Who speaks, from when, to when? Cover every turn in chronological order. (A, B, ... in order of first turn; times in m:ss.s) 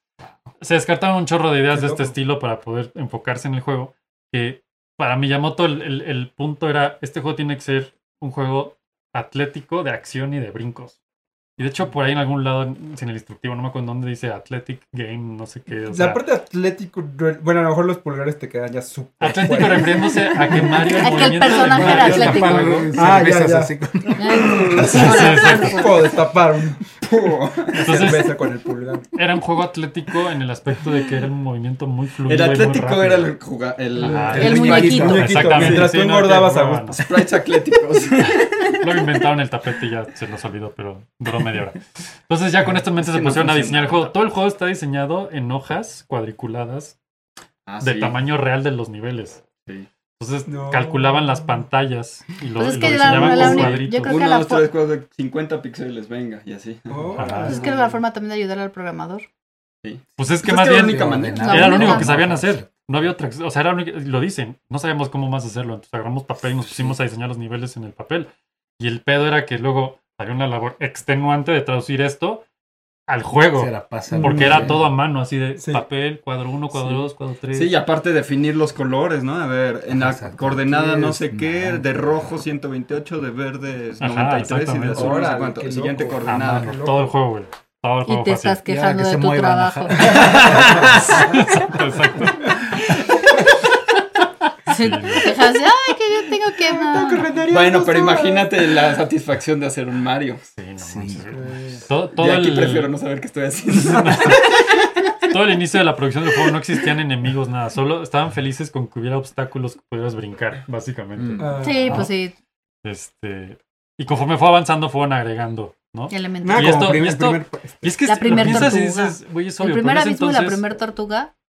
0:00.6-0:11.0 A
0:01.7-0:02.1 B
0:11.6-0:16.2 A
0:15.9-0:21.3 B
0:19.2-0:22.9 A
0:20.9-0:22.8 C
0:21.5-0:24.9 D
0:22.9-0:23.7 B
0:24.1-0:26.1 C
0:24.4-0:29.1 B
0:24.7-0:26.0 A
0:27.1-0:28.1 E
0:27.8-0:28.4 A
0:29.1-0:33.4 A
0:32.2-0:35.9 E
0:34.0-0:37.0 A
0:34.0-0:37.0 B
0:34.4-0:35.3 C
0:34.5-0:35.5 D
0:37.0-0:39.0 E
0:38.6-0:47.0 A
0:42.9-0:44.1 E
0:47.6-0:48.2 E
0:47.8-0:49.5 A
0:50.2-0:54.1 A
0:50.5-0:51.6 B
0:52.6-0:54.7 C
0:53.0-0:53.3 B
0:53.1-0:57.8 E
0:56.9-0:57.8 B
0:57.1-0:57.6 A
0:57.2-0:57.5 D
0:57.4-0:59.2 C
0:59.8-1:01.6 E
1:00.2-1:12.4 A
1:00.5-1:02.8 D
1:01.3-1:02.1 C
1:13.1-1:17.8 A
1:13.5-1:14.8 D
1:14.1-1:14.9 B
1:15.6-1:15.8 B
1:17.5-1:26.8 E
1:19.9-1:22.3 D
1:24.0-1:25.2 A
1:24.9-1:27.1 B
1:26.2-1:28.6 A
1:28.0-1:30.4 C
1:28.6-1:31.3 D
1:30.0-1:31.4 B
1:30.1-1:33.0 A
1:34.6-1:35.4 A
1:34.7-1:37.2 C
1:36.6-1:38.7 B
1:37.5-1:40.4 E
1:40.5-1:42.9 A
1:40.8-1:41.6 D
1:41.3-1:41.8 B
1:42.1-1:44.9 E
1:43.7-1:52.1 A
1:51.2-1:51.6 E
1:51.4-1:52.1 B
1:51.6-1:52.4 C
1:52.8-2:00.7 A
1:56.1-1:57.0 C
1:56.4-1:58.7 B
1:58.0-2:01.3 C